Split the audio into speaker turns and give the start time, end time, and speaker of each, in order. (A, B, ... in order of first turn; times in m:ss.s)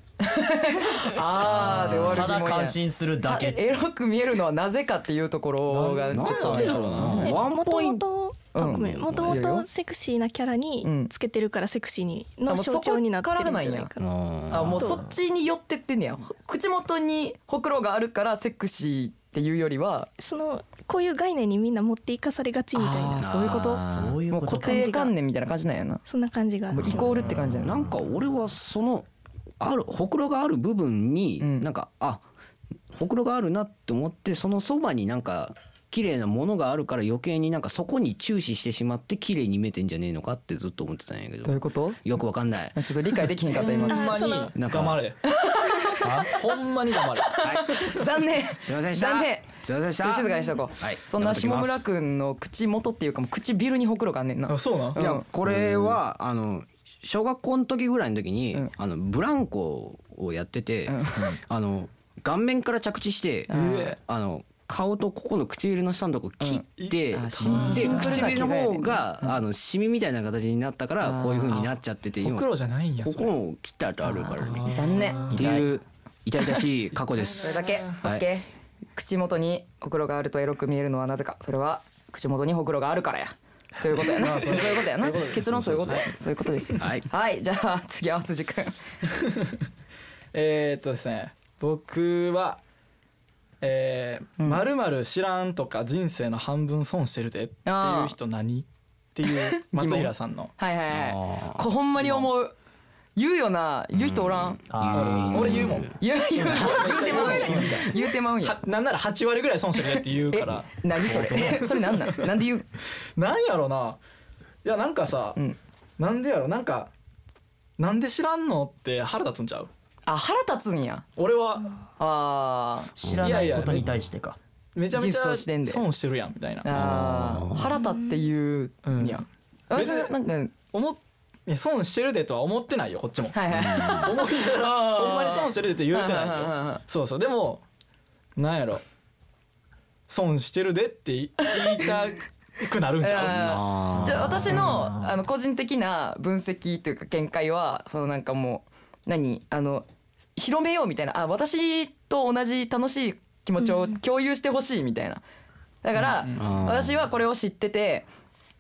0:00.2-0:07.4 A
0:01.4-0:02.3 B
0:01.6-0:03.7 C
0:05.7-0:07.3 D
0:06.1-0:08.0 B
0:06.6-0:14.1 E
0:08.5-0:09.7 A
0:10.8-0:11.1 A
0:12.5-0:13.9 A
0:14.0-0:14.8 B
0:14.5-0:20.1 A
0:14.6-0:15.1 C
0:14.8-0:15.0 E
0:20.2-0:23.2 E
0:22.8-0:26.0 A
0:23.2-0:24.2 B
0:23.8-0:24.9 C
0:24.5-0:25.1 E
0:26.1-0:27.1 E
0:26.7-0:27.8 A
0:26.8-0:28.0 C
0:26.8-0:29.1 B
0:29.6-0:32.2 B
0:31.4-0:31.7 A
0:32.9-0:42.8 B
0:41.4-0:42.0 A
0:42.7-0:44.2 A
0:43.5-0:45.2 D
0:43.5-0:44.5 E
0:44.6-0:45.0 B
0:45.3-0:46.3 A
0:46.0-0:46.3 C
0:46.2-0:48.0 D
0:47.2-0:55.3 A
0:47.4-0:47.7 B
0:48.6-0:51.8 B
0:54.5-0:55.0 D
0:55.0-1:12.5 B
0:55.4-0:56.0 C
1:00.9-1:01.4 A
1:03.5-1:04.0 A
1:03.5-1:04.0 D
1:06.4-1:09.4 A
1:06.8-1:08.4 D
1:11.0-1:11.6 A
1:12.2-1:13.4 D
1:13.0-1:18.3 B
1:14.5-1:15.5 D
1:14.6-1:15.6 A
1:17.0-1:18.0 D
1:17.4-1:28.8 A
1:23.9-1:26.1 D
1:25.4-1:26.1 B
1:26.8-1:27.1 B
1:29.2-1:29.5 D
1:30.3-1:32.6 D
1:33.6-1:40.5 D
1:34.4-1:34.7 A
1:37.7-1:38.2 A
1:39.3-1:42.5 A
1:40.9-1:42.2 B
1:43.2-1:44.6 A
1:43.9-1:46.0 B
1:44.7-1:45.8 C
1:44.9-1:52.3 D
1:46.0-1:48.6 A
1:46.4-1:47.8 C
1:50.3-1:52.7 A
1:51.0-1:51.6 C
1:53.2-1:54.0 D
1:54.6-1:55.4 D
1:56.0-1:56.9 D
1:57.8-1:59.7 D
2:00.1-2:01.0 A
2:01.2-2:01.7 D
2:02.0-2:03.1 A
2:03.0-2:04.4 C
2:03.1-2:03.7 B
2:03.2-2:03.8 D
2:04.8-2:06.7 D
2:04.9-2:05.8 A
2:06.6-2:10.5 A
2:06.7-2:07.7 B
2:07.8-2:08.2 E
2:08.8-2:13.4 D
2:13.3-2:16.8 A
2:13.5-2:14.1 B
2:13.9-2:17.6 D
2:18.4-2:18.8 D
2:20.1-2:23.6 D
2:23.0-2:29.8 A
2:23.3-2:24.8 B
2:24.0-2:25.2 C
2:30.4-2:35.2 A
2:35.8-2:38.1 A
2:36.0-2:36.5 D
2:36.4-2:37.0 B